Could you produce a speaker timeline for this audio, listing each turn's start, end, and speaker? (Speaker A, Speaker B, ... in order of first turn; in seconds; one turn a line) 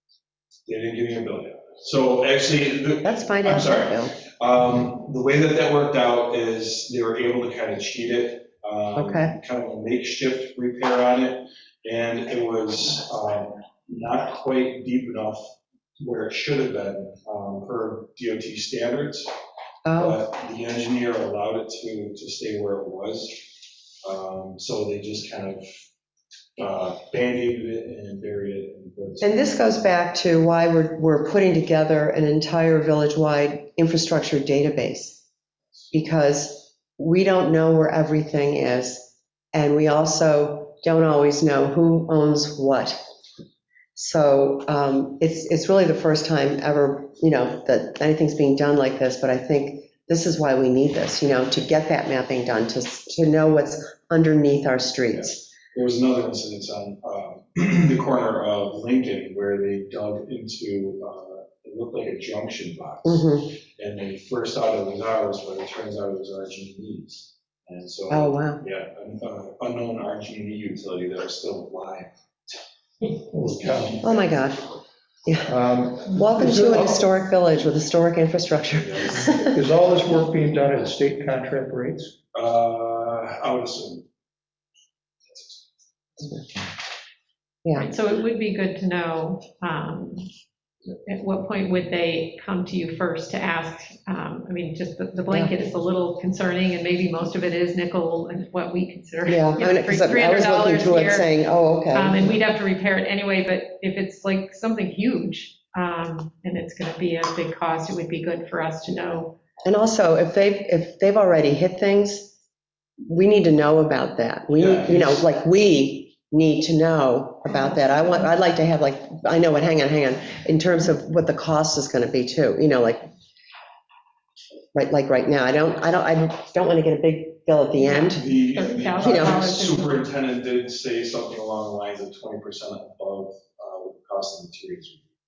Speaker A: 0.7-19.3
Speaker B: 3.0-4.2
Speaker B: 8.9-9.3
Speaker B: 19.8-20.2
Speaker A: 20.0-23.4
Speaker A: 24.0-25.7
Speaker A: 26.6-29.5
Speaker B: 29.2-35.2
Speaker B: 35.9-43.0
Speaker B: 43.9-55.5
Speaker A: 55.1-72.5
Speaker B: 63.0-63.5
Speaker B: 68.1-68.6
Speaker C: 73.3-74.0
Speaker B: 74.0-74.7
Speaker B: 75.2-79.5
Speaker C: 75.4-77.0
Speaker A: 78.8-79.4
Speaker C: 79.5-82.1
Speaker A: 82.3-84.0
Speaker A: 85.3-85.6
Speaker B: 87.6-87.9
Speaker D: 87.8-90.3
Speaker D: 91.0-101.4
Speaker B: 99.3-102.3
Speaker D: 101.9-109.3
Speaker B: 109.6-112.3
Speaker B: 113.0-123.0
Speaker A: 114.5-115.2
Speaker B: 124.7-128.2
Speaker D: 127.8-130.1
Speaker A: 128.1-135.0
Speaker B: 129.0-129.4